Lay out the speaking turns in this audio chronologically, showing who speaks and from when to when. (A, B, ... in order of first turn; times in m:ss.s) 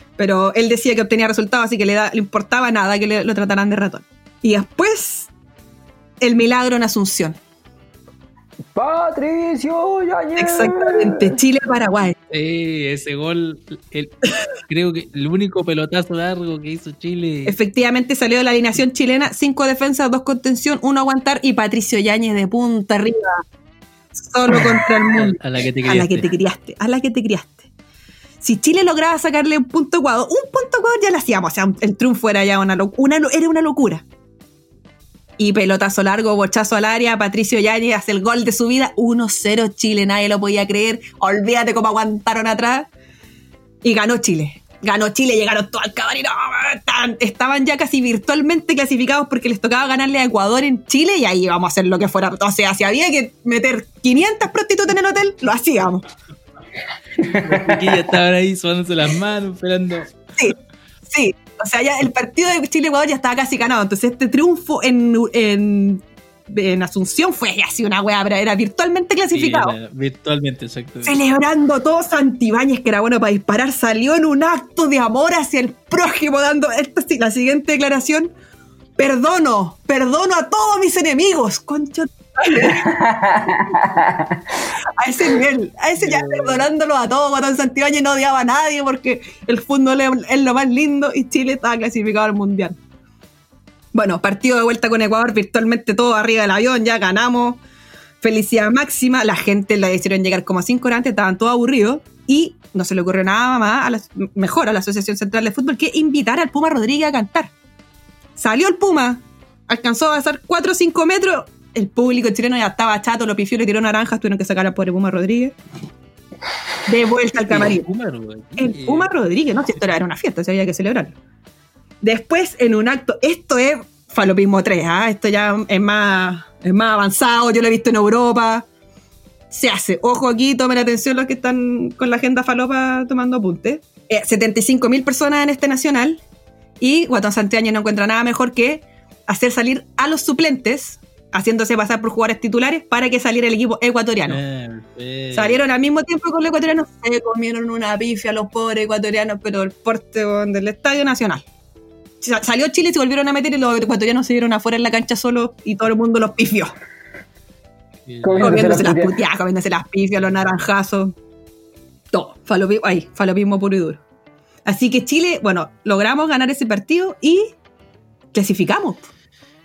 0:00.2-0:05.3 A
0:06.2-0:07.4 A
0:08.7-0:11.4 B
0:10.4-0:12.2 A
0:12.3-0:17.6 C
0:17.5-0:23.4 A
0:24.2-0:27.7 A
0:24.6-0:26.3 C
0:28.4-0:34.0 A
0:35.4-0:42.9 A
0:43.8-0:56.0 A
0:57.2-1:00.2 C
0:57.3-0:57.9 B
1:01.1-1:09.8 A
1:09.3-1:11.2 C
1:11.0-1:18.3 A
1:19.0-1:22.9 A
1:22.6-1:24.4 B
1:25.0-1:32.8 A
1:26.0-1:26.7 C
1:33.9-1:37.6 A
1:38.2-1:47.5 A
1:48.4-1:55.6 A
1:56.9-1:57.9 A
1:57.5-1:59.1 C
1:58.6-2:01.2 A
2:02.0-2:08.7 A
2:09.5-2:16.2 A
2:16.8-2:24.4 A
2:24.3-2:25.6 C
2:25.3-2:31.4 A
2:32.2-2:36.7 A
2:38.1-2:38.9 C
2:38.2-2:39.1 B
2:38.4-2:41.2 A
2:42.1-2:44.0 A
2:44.6-2:47.6 A
2:48.3-2:49.1 A